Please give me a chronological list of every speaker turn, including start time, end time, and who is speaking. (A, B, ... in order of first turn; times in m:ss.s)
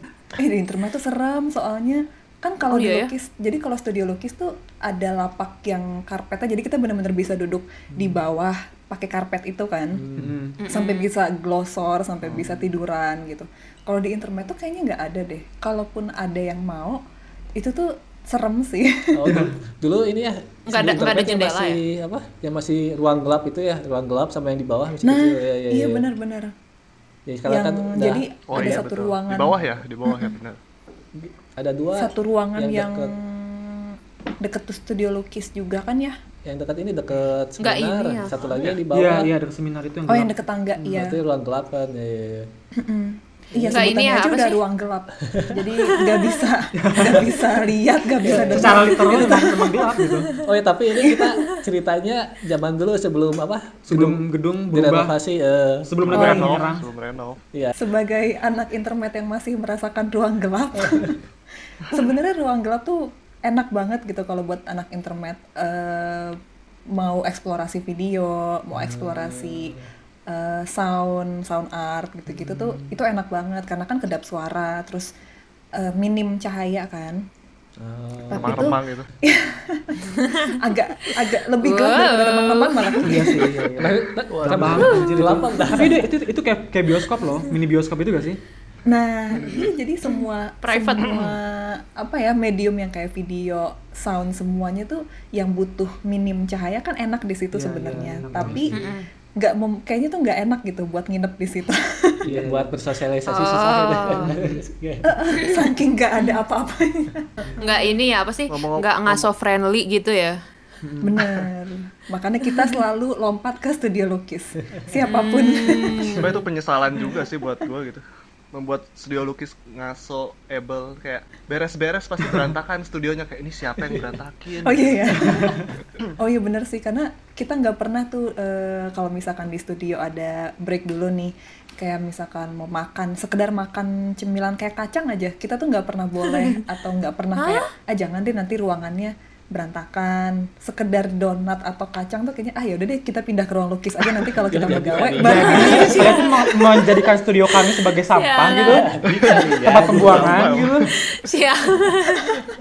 0:00.4-0:10.0 A
0:02.7-0:03.1 B
0:09.9-0:10.5 C
0:10.1-0:10.6 D
0:10.6-0:11.1 B
0:10.7-0:17.0 A
0:12.3-0:12.6 C
0:17.6-0:19.2 A
0:19.1-0:26.1 C
0:19.2-0:19.6 D
0:20.7-0:21.8 B
0:25.0-0:26.5 A
0:27.3-0:28.8 C
0:27.5-0:30.3 A
0:28.5-0:30.6 E
0:31.2-0:33.1 C
0:31.9-0:36.1 A
0:36.5-0:39.3 C
0:37.6-0:38.3 B
0:38.4-0:38.8 E
0:38.9-0:41.1 D
0:40.1-0:41.2 A
0:40.9-0:42.5 C
0:42.8-0:50.1 A
0:43.5-0:43.8 C
0:43.6-0:44.6 B
0:45.2-0:45.7 C
0:46.8-0:47.4 D
0:48.2-0:48.8 C
0:48.5-0:50.3 D
0:50.4-0:56.4 C
0:51.0-0:51.6 A
0:53.9-0:55.2 D
0:55.9-0:56.8 D
0:56.1-0:57.4 E
0:56.1-0:56.8 A
0:57.8-1:01.2 A
1:01.9-1:06.4 A
1:06.9-1:09.7 A
1:08.7-1:09.9 C
1:10.3-1:15.1 A
1:12.4-1:12.9 C
1:15.8-1:17.2 A
1:17.8-1:18.8 C
1:18.3-1:23.6 A
1:18.3-1:19.1 E
1:20.2-1:20.5 B
1:21.6-1:23.4 B
1:23.0-1:28.4 D
1:23.8-1:26.1 C
1:24.3-1:24.8 E
1:24.7-1:25.4 B
1:28.9-1:42.2 A
1:30.0-1:31.4 B
1:37.5-1:38.8 D
1:38.4-1:39.0 C
1:38.7-1:39.0 B
1:42.3-1:42.7 D
1:42.3-1:45.2 C
1:43.3-1:44.3 B
1:44.2-1:44.6 D
1:45.0-1:47.9 A
1:47.6-1:50.4 B
1:48.5-1:49.3 E
1:50.8-1:51.2 D
1:51.0-1:56.3 A
1:54.6-1:54.9 C
1:55.0-1:56.3 B
1:56.2-2:05.3 E
2:04.6-2:26.5 A
2:05.4-2:05.7 D
2:16.3-2:16.6 B
2:17.4-2:17.7 B
2:24.4-2:26.2 C
2:25.2-2:28.9 D
2:28.1-2:28.9 B
2:28.6-2:30.6 C
2:29.1-2:30.9 E
2:29.6-2:30.9 D
2:31.0-2:32.4 B